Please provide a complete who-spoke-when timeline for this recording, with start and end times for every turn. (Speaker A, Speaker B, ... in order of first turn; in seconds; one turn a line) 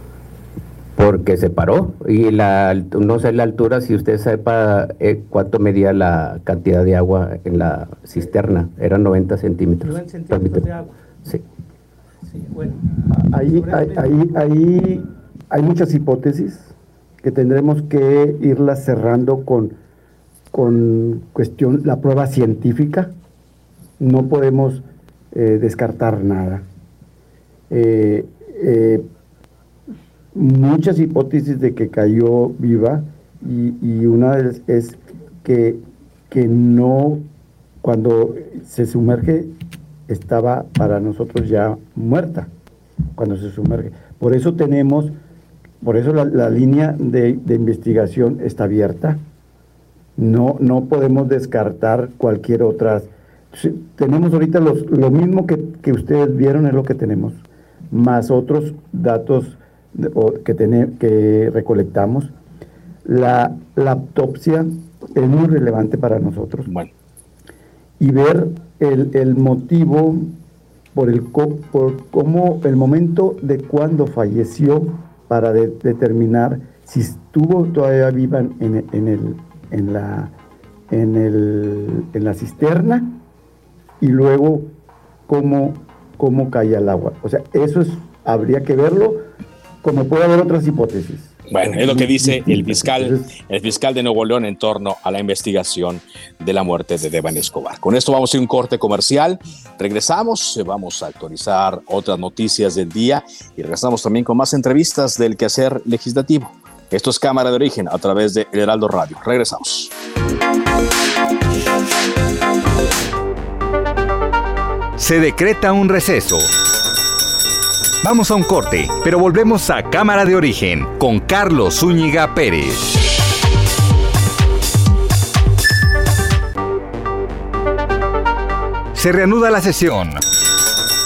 Speaker A: 0.9-10.7
Speaker B: 9.8-10.9
Speaker B: 12.2-12.8
Speaker C: 13.1-19.8
Speaker B: 13.5-14.2
Speaker C: 20.5-23.1
Speaker C: 24.0-26.6
Speaker C: 27.7-29.1
Speaker C: 30.3-37.2
Speaker C: 37.8-39.5
Speaker C: 40.1-42.5
Speaker C: 43.1-45.1
Speaker C: 45.8-49.2
Speaker C: 50.2-62.3
Speaker C: 63.0-66.7
Speaker C: 68.0-70.3
Speaker C: 70.9-80.3
Speaker C: 80.9-83.2
Speaker C: 84.0-84.7
Speaker C: 85.3-89.2
Speaker C: 89.8-93.3
Speaker D: 91.5-109.9
Speaker E: 115.0-116.5
Speaker E: 118.0-122.9
Speaker E: 128.9-130.2